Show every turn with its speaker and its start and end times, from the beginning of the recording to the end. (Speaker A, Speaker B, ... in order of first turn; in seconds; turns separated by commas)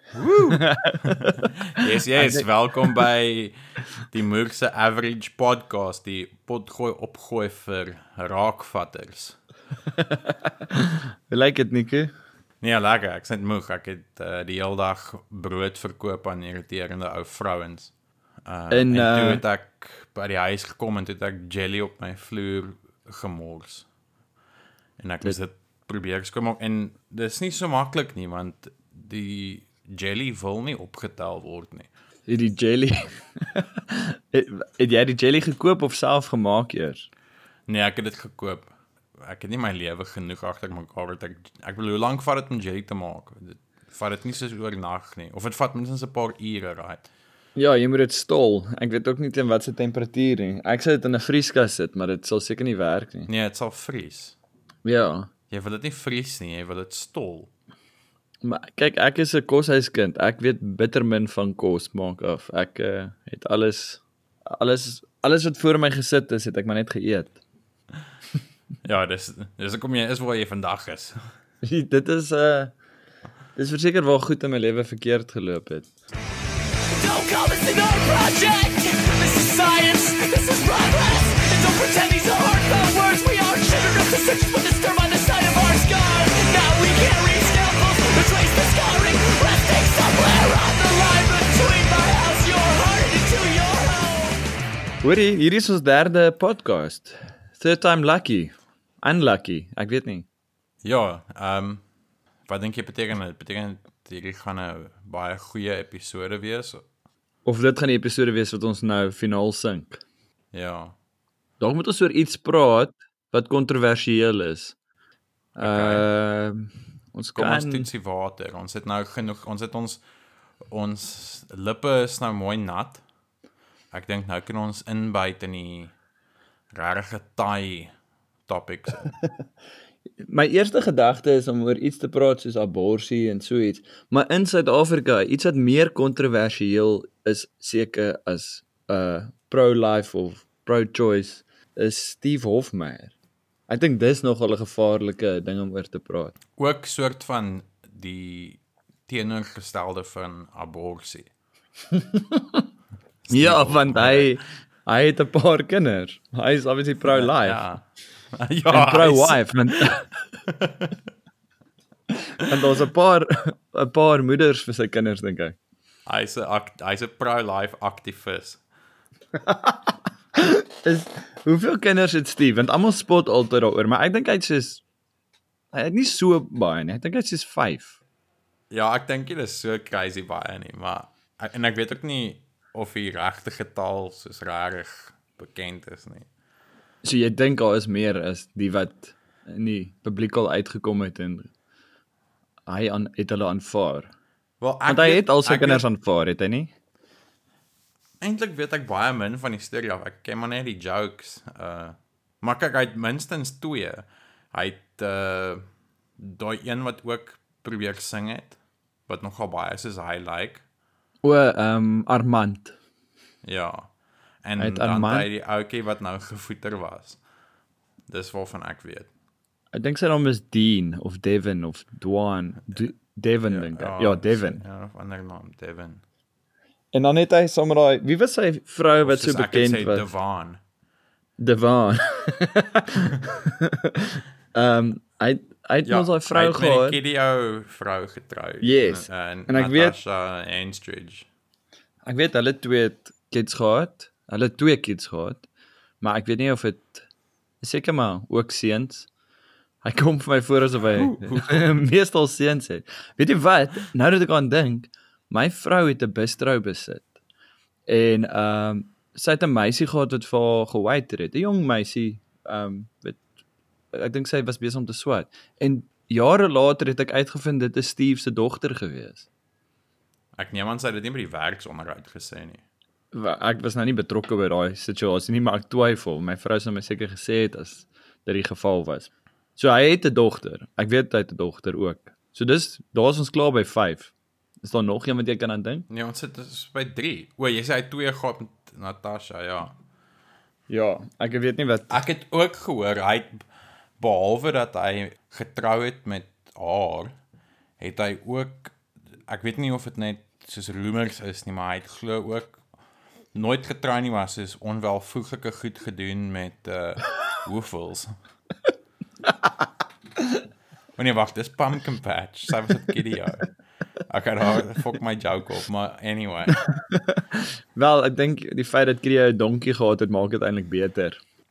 Speaker A: 0.1-3.5, Speaker B: 0.5-1.5, Speaker B: 2.1-3.0, Speaker A: 4.1-9.4, Speaker B: 10.0-12.1, Speaker A: 12.6-17.9, Speaker A: 18.5-23.9, Speaker B: 18.7-19.4, Speaker A: 25.0-31.9, Speaker B: 32.3-37.1, Speaker A: 37.7-47.1, Speaker B: 47.6-53.3, Speaker A: 53.3-54.4, Speaker B: 54.9-55.3, Speaker A: 55.5-57.5, Speaker B: 58.4-67.4, Speaker A: 68.8-71.2, Speaker B: 71.6-72.7, Speaker B: 73.6-75.9, Speaker C: 77.0-94.4, Speaker B: 95.0-100.3, Speaker A: 100.8-101.8, Speaker A: 102.5-106.8, Speaker B: 107.5-110.0, Speaker A: 110.5-111.0, Speaker B: 111.6-114.8, Speaker B: 115.6-117.9, Speaker A: 115.6-116.1, Speaker A: 117.4-120.0, Speaker A: 120.7-123.0, Speaker A: 123.9-125.9, Speaker A: 126.7-127.9, Speaker A: 128.5-129.2, Speaker B: 130.2-143.1, Speaker B: 143.7-146.3, Speaker A: 146.6-151.3, Speaker B: 151.9-152.6, Speaker A: 153.2-154.4, Speaker B: 153.3-157.6, Speaker A: 157.1-157.8, Speaker A: 158.4-159.8, Speaker B: 158.7-160.1, Speaker A: 160.5-160.9, Speaker B: 162.4-165.6, Speaker A: 166.1-168.6, Speaker B: 169.4-169.8, Speaker B: 170.4-174.8, Speaker B: 175.7-178.0, Speaker A: 178.7-186.3, Speaker B: 187.0-191.5, Speaker B: 192.7-194.1, Speaker A: 194.6-195.8, Speaker B: 194.9-196.7, Speaker A: 198.2-205.6, Speaker A: 206.2-208.6, Speaker A: 209.1-210.6, Speaker B: 211.2-212.8, Speaker A: 213.4-213.9, Speaker A: 214.4-217.2, Speaker B: 214.6-215.3, Speaker A: 218.1-219.1, Speaker B: 219.7-224.6, Speaker A: 223.5-226.0, Speaker B: 226.9-230.1, Speaker A: 229.0-230.6, Speaker B: 231.4-237.0, Speaker A: 235.8-241.3, Speaker B: 238.6-240.0, Speaker B: 242.1-245.5, Speaker B: 246.0-247.1, Speaker B: 247.6-249.1, Speaker B: 249.8-257.1, Speaker A: 250.9-251.8, Speaker B: 257.9-263.2, Speaker B: 263.9-269.3, Speaker A: 270.4-272.6, Speaker B: 273.1-284.1, Speaker B: 284.6-285.9, Speaker A: 285.9-289.8, Speaker B: 290.7-292.0, Speaker A: 291.9-293.4, Speaker A: 294.0-297.1, Speaker A: 297.8-298.8, Speaker A: 299.3-302.6, Speaker A: 303.3-308.1, Speaker A: 311.0-313.5, Speaker A: 314.1-316.6, Speaker B: 316.8-321.2